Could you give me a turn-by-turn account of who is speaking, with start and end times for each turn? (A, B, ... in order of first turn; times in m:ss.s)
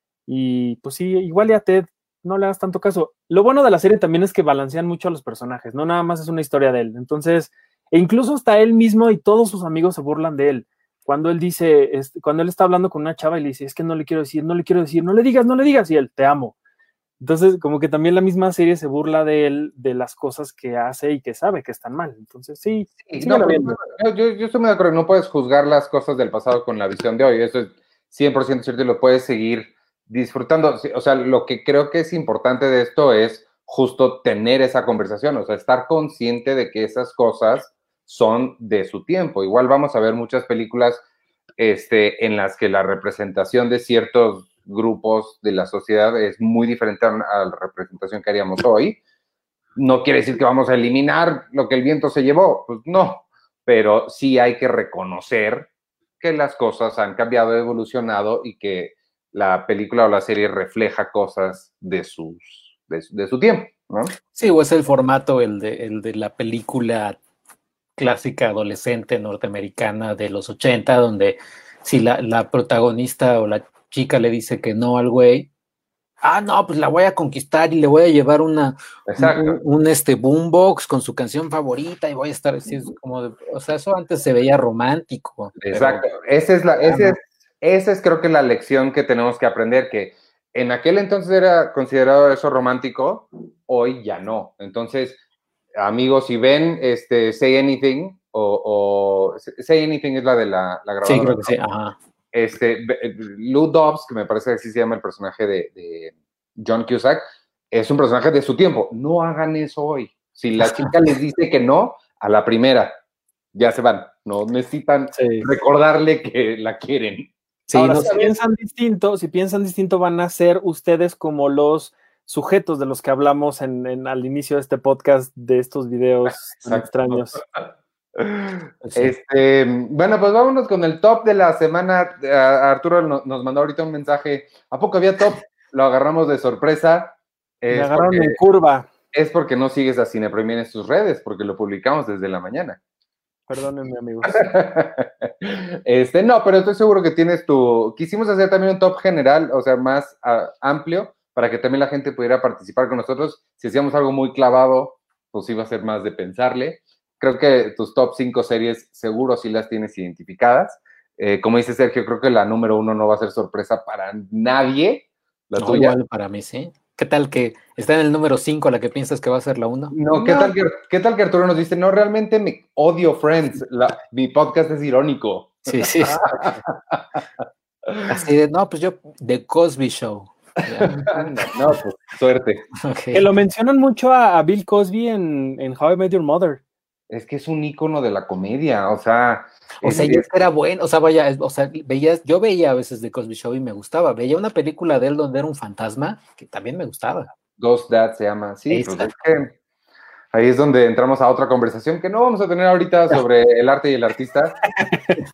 0:00.3-0:16.6 A
0:17.2-0:23.8 A
0:23.0-0:41.0 B
0:41.6-0:49.0 B
0:49.8-0:55.7 B
0:56.2-1:04.2 B
1:04.3-1:07.2 C
1:08.0-1:15.5 C
1:16.2-1:26.0 C
1:19.1-1:19.6 B
1:25.6-1:35.2 B
1:26.9-1:27.2 C
1:35.8-1:41.5 B
1:41.0-1:42.0 C
1:42.3-1:53.0 B
1:50.6-1:50.9 C
1:53.5-1:57.3 B
1:55.1-1:55.5 A
1:57.7-1:58.2 C
1:57.8-2:07.4 A
1:57.9-1:58.3 B
2:06.7-2:18.4 B
2:08.8-2:09.1 C
2:17.7-2:18.9 A
2:19.1-2:22.8 B
2:23.5-2:24.4 A
2:24.2-2:46.0 B
2:45.6-2:50.5 C
2:49.9-2:57.2 B
2:55.7-2:56.6 C
2:57.9-2:58.2 B
2:58.1-3:01.3 C
3:00.8-3:02.7 B
3:02.8-3:03.3 C
3:03.1-3:06.6 A
3:07.1-3:10.3 B
3:09.8-3:17.3 C
3:17.6-3:19.6 B
3:18.7-3:19.1 C
3:20.3-3:24.6 B
3:24.9-3:25.2 A